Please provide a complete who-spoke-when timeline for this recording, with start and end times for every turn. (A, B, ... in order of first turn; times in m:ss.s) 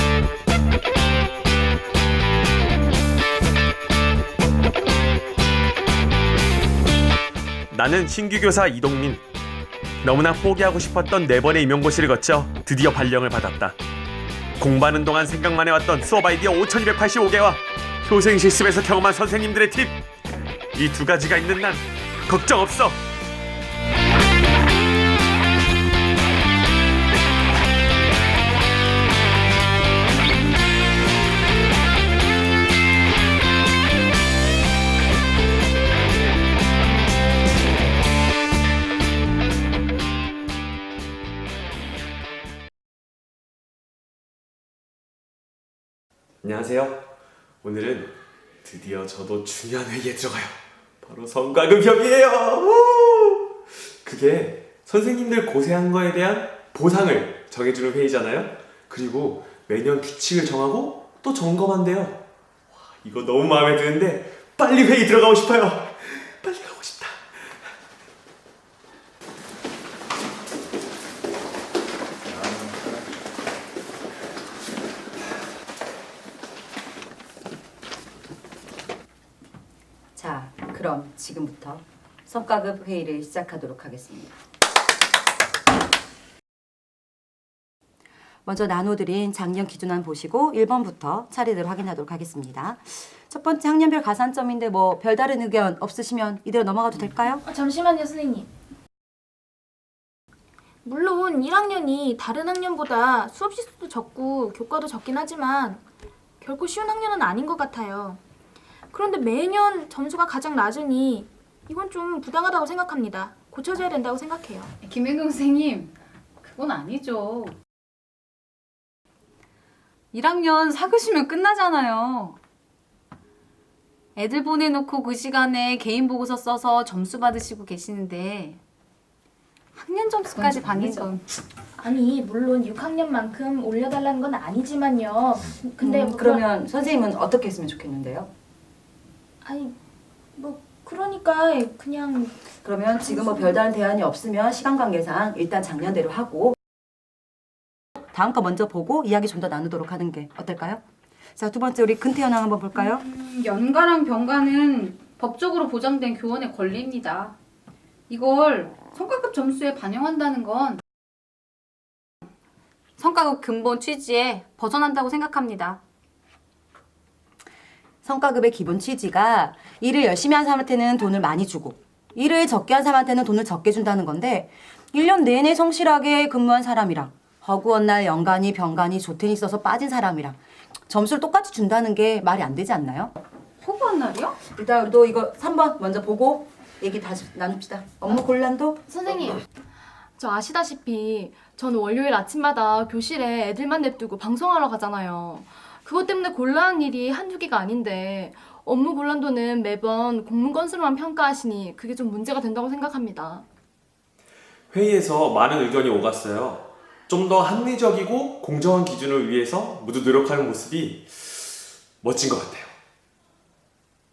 0:07.7-0:09.2 A
0:10.0-0:13.8 A
0:14.6-0:20.0 A
0:20.7-0:23.0 A
0:46.4-0:47.0 A
0:47.6-0:48.1 A
0:48.6-0:53.4 A
0:54.0-1:02.2 A
1:02.9-1:07.2 A
1:20.2-1:24.3 B
1:28.4-1:37.4 B
1:37.4-1:38.5 C
1:40.8-1:45.8 C
1:46.4-1:48.2 C
1:48.9-1:54.7 C
1:54.8-1:57.5 D
2:00.1-2:02.4 D
2:04.2-2:08.6 D
2:09.8-2:11.2 D
2:10.8-2:11.0 C
2:11.8-2:16.4 C
2:15.8-2:18.3 B
2:19.4-2:19.8 C
2:20.3-2:22.4 C
2:22.6-2:26.6 B
2:22.9-2:23.6 C
2:28.1-2:30.8 B
2:31.4-2:33.0 B
2:32.8-2:37.3 D
2:38.1-2:40.8 D
2:43.0-2:45.8 D
2:48.0-3:03.1 B
3:03.6-3:04.4 D
3:04.4-3:08.8 B
3:08.9-3:09.3 E
3:10.2-3:22.0 E
3:22.5-3:23.4 E
3:24.7-3:31.4 A
3:32.0-3:32.7 A